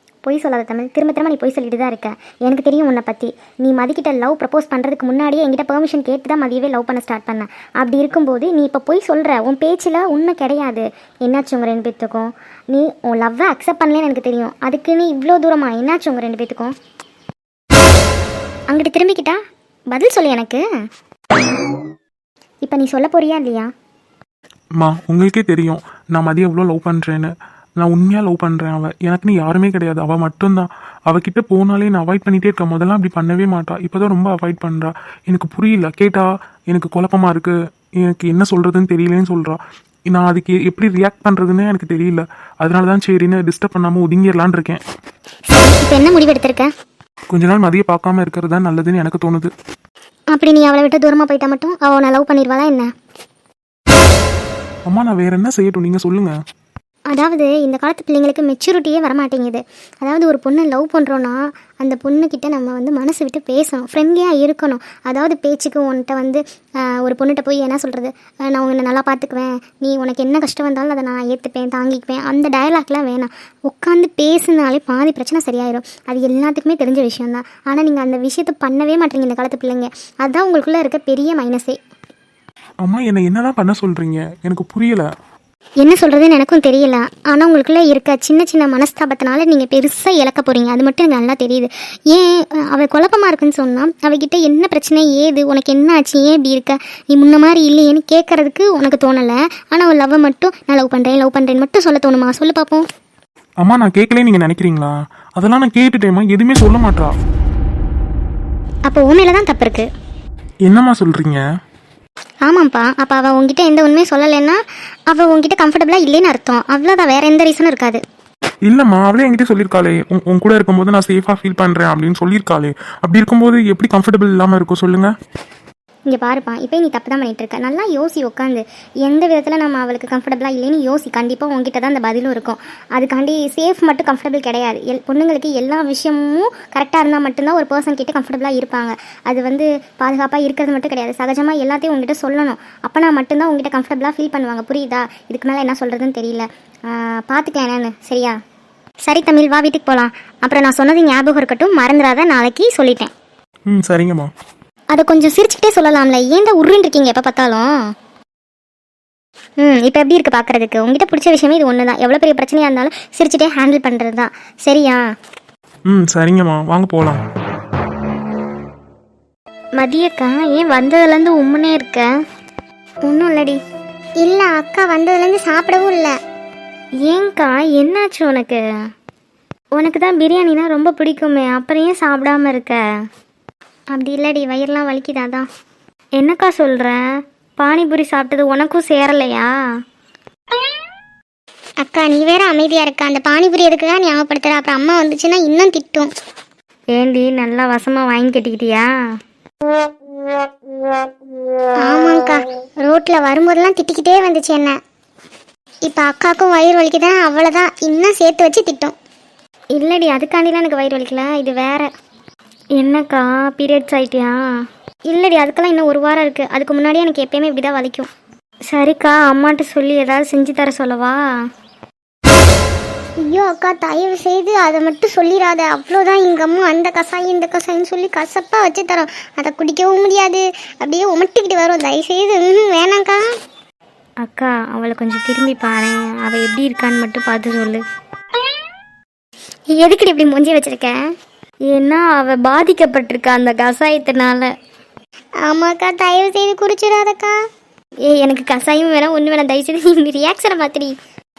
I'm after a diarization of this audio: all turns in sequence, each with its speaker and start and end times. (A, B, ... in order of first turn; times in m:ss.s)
0:00.2-0:16.7 A
0:18.7-0:19.4 A
0:19.9-0:20.6 A
0:22.6-0:23.7 A
0:24.8-0:44.8 B
0:45.5-0:46.7 A
0:47.3-0:49.5 B
0:50.3-0:52.9 A
0:54.9-0:56.4 B
0:57.1-1:21.8 A
1:22.8-1:25.1 B
1:25.8-1:42.8 A
1:43.6-1:47.1 B
1:48.9-1:49.9 A
1:50.7-1:51.4 B
1:52.4-1:58.0 A
1:58.7-2:05.1 B
2:06.1-2:28.4 A
2:29.0-2:33.1 A
2:33.7-2:34.3 B
2:34.9-2:37.7 A
2:39.6-2:45.0 A
2:45.9-2:47.2 B
2:49.8-2:52.1 C
2:53.0-2:53.6 A
2:54.2-2:56.1 A
2:57.0-2:58.6 C
2:59.8-3:02.8 C
3:03.9-3:05.5 A
3:06.2-3:07.0 C
3:07.6-3:09.5 C
3:11.8-3:16.1 A
3:16.9-3:18.8 C
3:21.8-3:24.8 A
3:25.9-3:29.0 A
3:29.8-3:31.9 A
3:32.8-3:34.3 C
3:35.1-3:38.1 A
3:38.7-3:41.2 C
3:43.2-3:53.2 A
3:54.2-3:57.8 C
3:59.7-4:01.0 A
4:01.7-4:04.5 C
4:05.5-4:07.3 A
4:08.1-4:10.9 A